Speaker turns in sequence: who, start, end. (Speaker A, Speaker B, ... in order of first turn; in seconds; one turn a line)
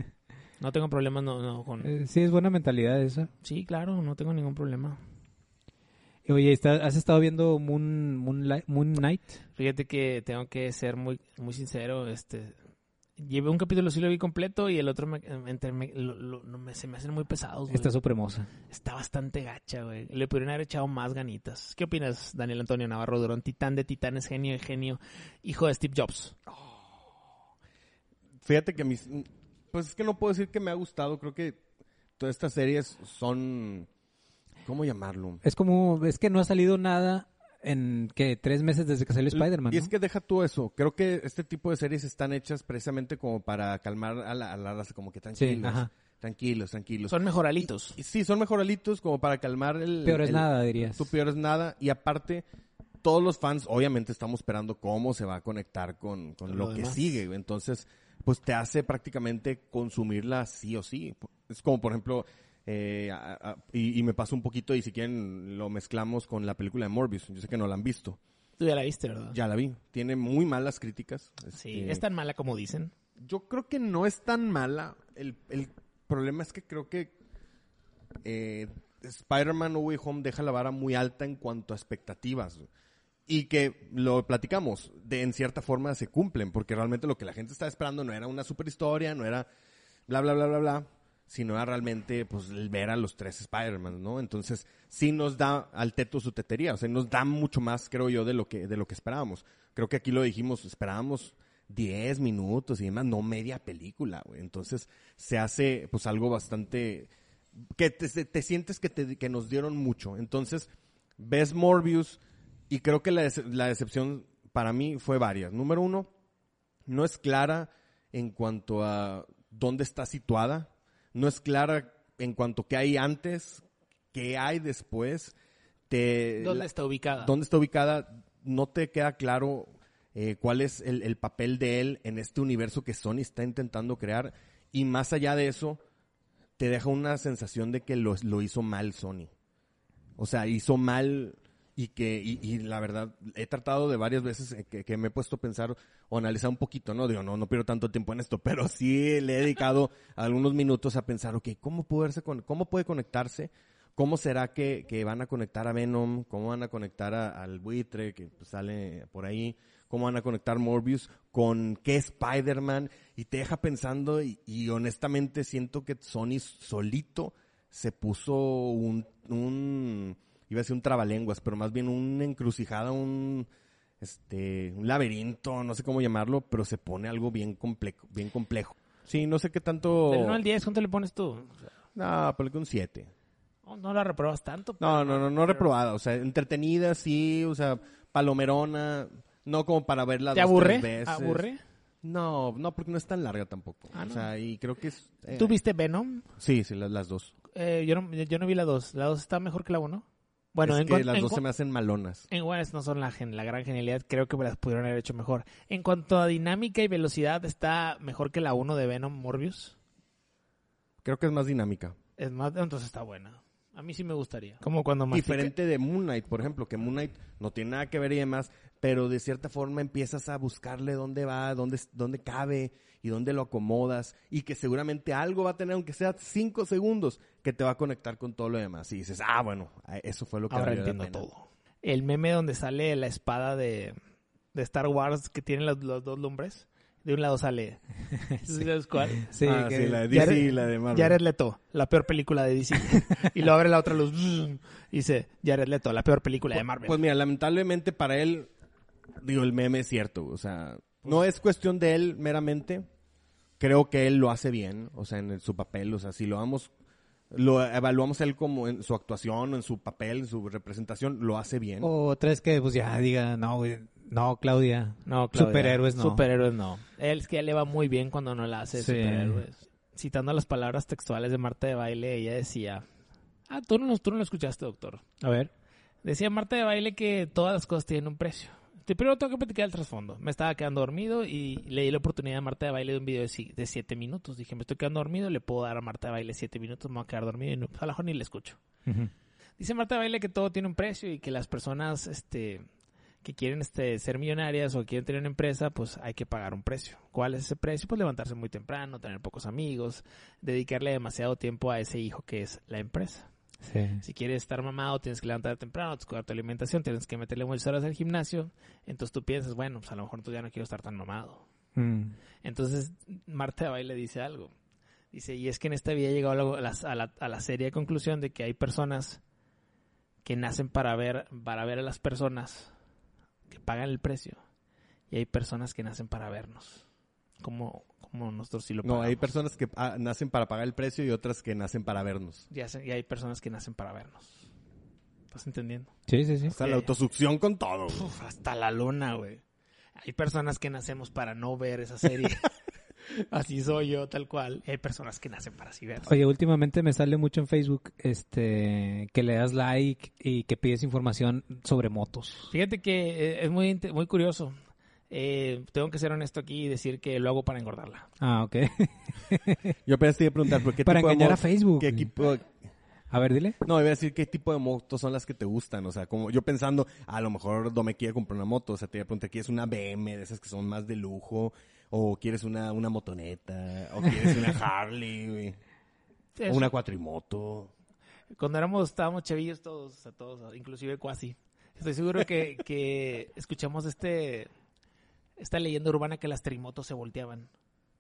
Speaker A: 0.6-1.9
Speaker B: 1.8-3.3
Speaker A: 3.4-5.0
Speaker B: 6.2-9.4
Speaker A: 9.6-12.6
Speaker A: 13.2-17.9
Speaker B: 17.7-18.5
Speaker A: 18.7-26.4
Speaker C: 28.4-31.6
Speaker C: 32.2-33.9
Speaker C: 34.6-35.4
Speaker B: 35.4-39.9
Speaker C: 39.3-47.2
Speaker B: 45.4-45.9
Speaker A: 47.1-48.0
Speaker C: 47.9-52.4
Speaker B: 50.0-51.1
Speaker C: 53.0-68.2
Speaker A: 56.5-57.1
Speaker A: 68.6-69.4
Speaker C: 69.3-72.0
Speaker A: 71.5-72.9
Speaker C: 73.2-77.1
Speaker C: 78.2-82.7
Speaker C: 83.3-89.5
Speaker C: 90.1-112.2
Speaker C: 112.7-116.1
Speaker C: 116.9-125.3
Speaker C: 125.9-135.8
Speaker A: 126.4-127.3
Speaker C: 136.6-139.3
Speaker C: 140.2-173.5
Speaker C: 174.0-180.4
Speaker A: 180.1-181.7
Speaker C: 181.9-183.1
Speaker A: 183.6-185.7
Speaker C: 184.8-191.4
Speaker A: 190.3-191.6
Speaker C: 192.0-195.6
Speaker A: 193.9-194.2
Speaker A: 195.3-196.2
Speaker C: 196.4-197.3
Speaker A: 197.5-201.4
Speaker C: 200.6-202.3
Speaker A: 202.3-209.7
Speaker C: 211.0-211.9
Speaker A: 212.2-215.5
Speaker C: 215.1-231.2
Speaker A: 230.5-233.9
Speaker A: 234.5-239.3
Speaker B: 239.3-240.3
Speaker C: 239.4-241.2
Speaker A: 240.1-247.0
Speaker C: 246.6-248.5
Speaker C: 249.2-252.8
Speaker C: 253.6-256.7
Speaker C: 257.3-261.9
Speaker B: 261.8-266.2
Speaker A: 265.1-272.8
Speaker B: 268.7-269.4
Speaker A: 273.5-275.0
Speaker B: 275.2-275.5
Speaker A: 276.0-288.6
Speaker B: 288.9-289.1
Speaker A: 289.6-292.7
Speaker A: 293.2-303.3
Speaker B: 303.6-304.0
Speaker A: 304.0-311.4
Speaker B: 311.8-312.1
Speaker A: 312.4-314.5
Speaker A: 315.1-319.2
Speaker A: 320.2-322.7
Speaker A: 323.5-324.4
Speaker A: 325.1-326.8
Speaker A: 327.4-329.3
Speaker C: 328.8-332.5
Speaker A: 332.5-334.4
Speaker A: 335.3-335.9
Speaker B: 336.1-336.5
Speaker A: 336.5-336.9
Speaker C: 336.5-338.1
Speaker A: 337.9-339.4
Speaker A: 340.0-342.5
Speaker A: 343.1-346.1
Speaker B: 346.1-352.5
Speaker A: 352.5-354.6
Speaker A: 355.1-358.1
Speaker B: 358.2-359.7
Speaker C: 359.9-362.5
Speaker B: 360.8-362.1
Speaker B: 363.1-363.6
Speaker C: 363.6-375.6
Speaker A: 376.4-376.7
Speaker C: 376.5-377.7
Speaker A: 378.4-384.5
Speaker A: 385.4-387.5